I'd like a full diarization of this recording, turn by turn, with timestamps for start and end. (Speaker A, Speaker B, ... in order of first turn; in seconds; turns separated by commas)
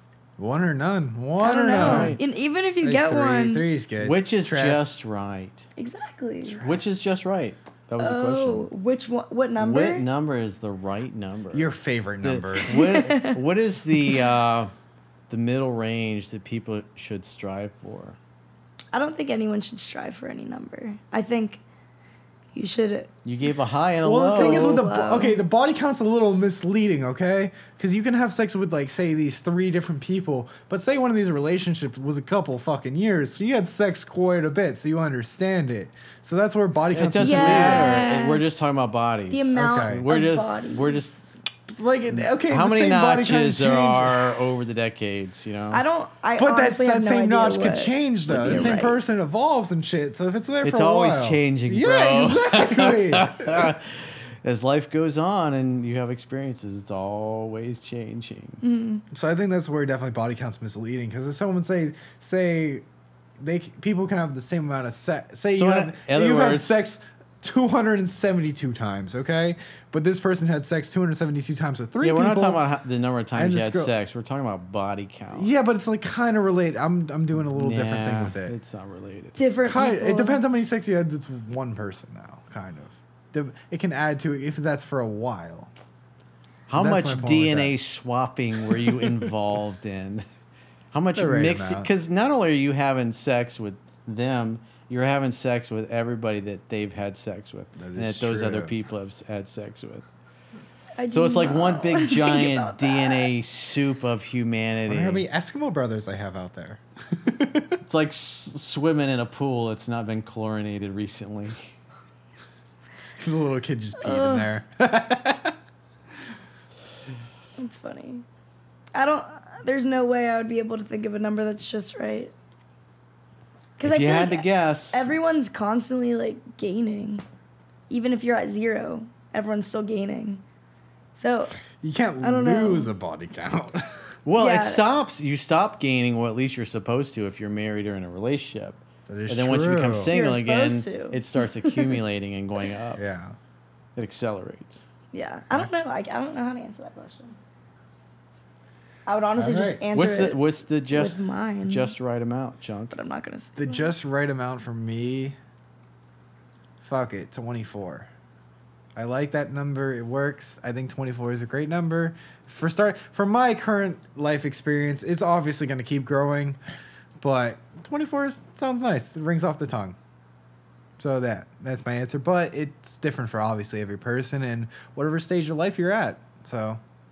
Speaker A: 0.4-2.2, Speaker B: 1.4-3.7, Speaker C: 1.7-2.2, Speaker A: 2.8-5.0, Speaker C: 4.0-5.6, Speaker B: 5.8-6.7, Speaker C: 6.5-8.7, Speaker B: 8.0-10.1, Speaker C: 9.6-11.7, Speaker A: 11.5-12.8, Speaker C: 12.2-14.7, Speaker B: 12.7-13.4, Speaker C: 15.3-18.2, Speaker B: 18.9-21.6, Speaker B: 22.5-23.1, Speaker C: 23.2-24.8, Speaker A: 24.0-38.0, Speaker B: 24.3-25.4, Speaker C: 36.9-41.1, Speaker B: 37.2-38.4, Speaker B: 39.3-41.2, Speaker A: 39.5-40.1, Speaker A: 41.7-44.4, Speaker C: 42.1-45.8, Speaker B: 45.7-49.0, Speaker A: 46.4-53.7, Speaker C: 48.5-48.7, Speaker C: 50.6-58.6, Speaker B: 58.6-59.0, Speaker A: 59.1-62.8, Speaker A: 63.4-72.6, Speaker C: 65.5-66.8, Speaker C: 72.0-75.5, Speaker A: 73.3-73.9, Speaker A: 75.3-78.5, Speaker C: 77.5-79.4, Speaker B: 79.3-80.4, Speaker A: 79.6-85.7, Speaker C: 86.7-90.2, Speaker A: 86.8-87.7, Speaker C: 90.9-100.1, Speaker A: 91.1-91.9, Speaker A: 97.8-98.7, Speaker B: 101.0-103.3, Speaker C: 101.1-105.2, Speaker A: 104.9-107.8, Speaker C: 107.8-111.7, Speaker A: 113.2-115.5, Speaker B: 114.0-114.5, Speaker B: 117.6-118.2, Speaker B: 118.9-122.3, Speaker B: 123.8-127.2, Speaker C: 123.8-125.1, Speaker B: 127.9-130.4, Speaker B: 131.2-131.6, Speaker A: 131.7-134.1, Speaker B: 132.2-132.9, Speaker C: 134.2-143.0, Speaker B: 134.4-134.8, Speaker A: 139.1-140.1, Speaker B: 140.1-142.0, Speaker A: 142.9-143.3, Speaker C: 143.9-144.9, Speaker B: 145.1-147.3, Speaker B: 149.1-151.9, Speaker A: 149.3-149.8, Speaker C: 149.9-153.1, Speaker B: 152.9-153.9, Speaker A: 153.6-155.3, Speaker A: 156.8-158.1, Speaker A: 158.9-166.6, Speaker A: 167.2-170.0, Speaker A: 171.0-176.8